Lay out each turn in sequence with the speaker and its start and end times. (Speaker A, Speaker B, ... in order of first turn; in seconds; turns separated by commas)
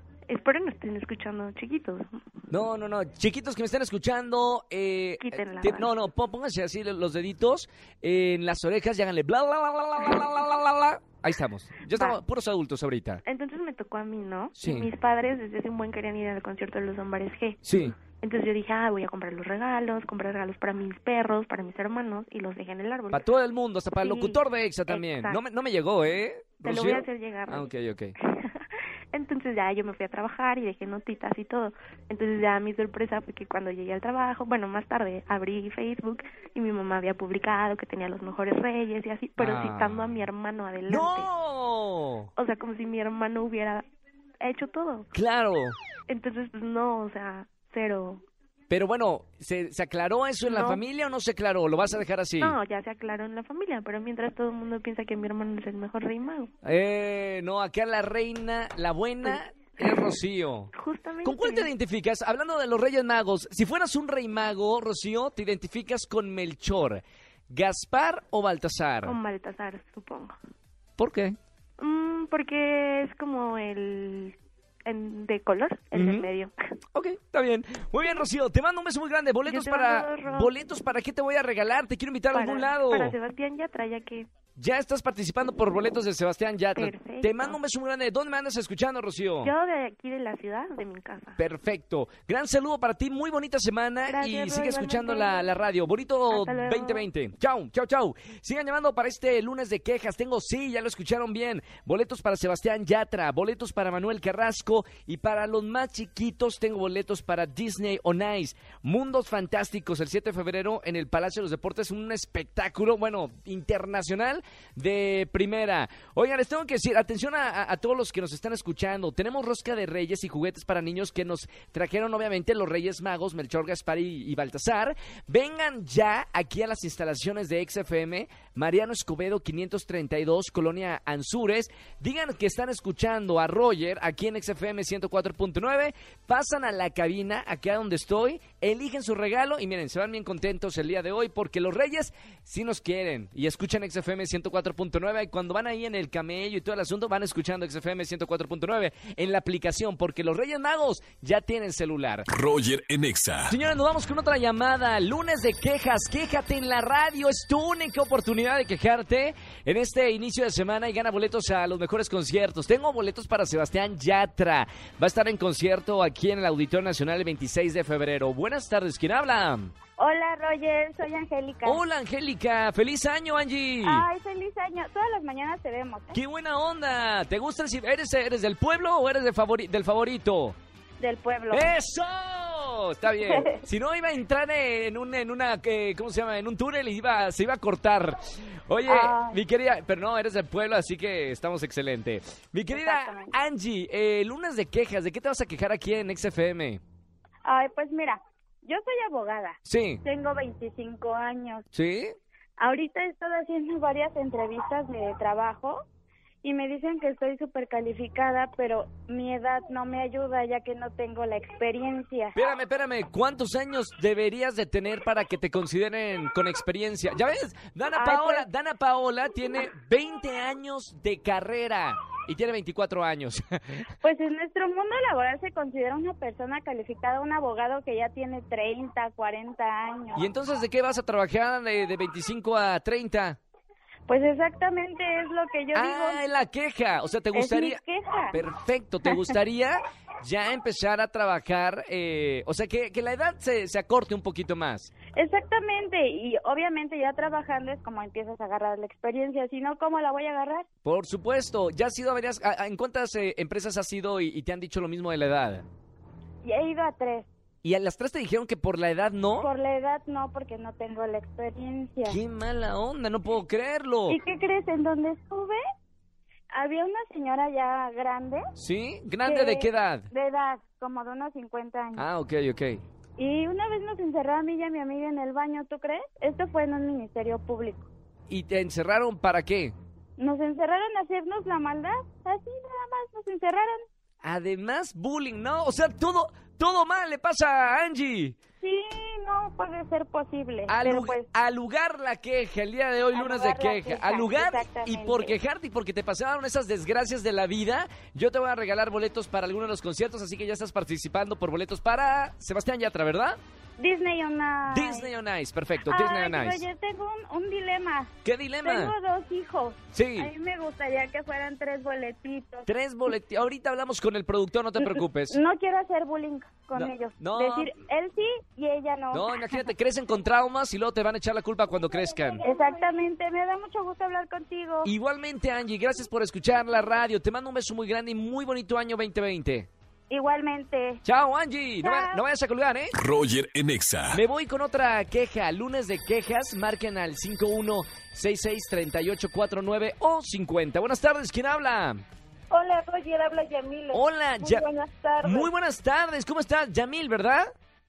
Speaker A: 0.3-2.2, Speaker B: 2.5-13.2, Speaker A: 5.2-5.9, Speaker A: 11.9-12.2, Speaker A: 13.2-23.3, Speaker B: 14.6-14.9, Speaker B: 17.6-17.9, Speaker B: 23.1-28.1, Speaker A: 24.0-25.4, Speaker A: 26.6-27.7, Speaker A: 28.2-41.3, Speaker B: 39.4-40.0, Speaker B: 40.9-42.3, Speaker A: 42.4-43.9, Speaker A: 44.4-45.1, Speaker B: 45.1-45.8, Speaker A: 46.1-48.2, Speaker B: 48.7-52.6, Speaker A: 50.5-50.8, Speaker A: 52.4-56.5, Speaker B: 56.6-60.7, Speaker A: 59.2-60.1, Speaker A: 60.7-61.7, Speaker B: 61.2-69.2, Speaker A: 69.0-70.3, Speaker B: 71.0-71.4, Speaker A: 71.8-76.5, Speaker B: 75.9-76.3, Speaker B: 76.9-83.2, Speaker A: 79.5-80.5, Speaker A: 82.3-84.3, Speaker B: 84.6-89.5, Speaker A: 86.7-87.6, Speaker A: 89.4-91.4, Speaker B: 91.4-152.2, Speaker A: 94.0-95.5, Speaker A: 96.3-97.1, Speaker C: 152.3-153.5, Speaker B: 153.5-169.7, Speaker D: 170.0-171.8, Speaker B: 171.6-174.1, Speaker D: 173.8-176.2, Speaker B: 176.1-180.6, Speaker D: 181.0-181.7, Speaker B: 181.5-196.8, Speaker D: 188.9-189.4, Speaker D: 192.7-193.3, Speaker D: 197.4-201.7, Speaker B: 199.6-200.0, Speaker B: 201.7-202.1, Speaker D: 202.6-205.8, Speaker D: 206.4-212.3, Speaker B: 212.3-223.8, Speaker D: 217.9-218.4, Speaker D: 224.0-230.2, Speaker B: 230.1-233.4, Speaker D: 234.1-236.2, Speaker B: 235.7-237.8, Speaker D: 237.3-238.4, Speaker B: 238.3-244.9, Speaker D: 239.0-239.3, Speaker D: 245.1-250.7, Speaker B: 250.8-255.7, Speaker D: 256.4-257.3, Speaker B: 257.6-259.5, Speaker D: 259.4-262.2, Speaker B: 262.0-264.2, Speaker D: 264.1-265.6, Speaker D: 266.5-268.4, Speaker B: 268.6-270.1, Speaker D: 269.2-272.1, Speaker B: 271.9-272.8, Speaker D: 273.2-277.9, Speaker B: 278.3-279.7, Speaker D: 280.2-283.8, Speaker B: 284.2-288.4, Speaker D: 288.6-291.3, Speaker B: 290.7-303.4, Speaker D: 293.1-295.3, Speaker D: 303.8-305.1, Speaker B: 304.6-306.6, Speaker D: 305.9-308.1, Speaker B: 308.2-308.9, Speaker D: 308.6-312.7, Speaker B: 309.9-310.3, Speaker B: 312.6-315.4, Speaker D: 314.8-319.7, Speaker B: 316.7-317.7, Speaker B: 319.1-322.4, Speaker E: 321.8-322.9, Speaker D: 322.4-324.9, Speaker B: 324.8-329.7, Speaker D: 330.1-331.0, Speaker B: 331.0-332.9, Speaker D: 331.8-332.2, Speaker C: 333.0-334.2, Speaker B: 334.1-342.0, Speaker E: 342.5-345.5, Speaker B: 343.9-344.6, Speaker B: 345.2-347.5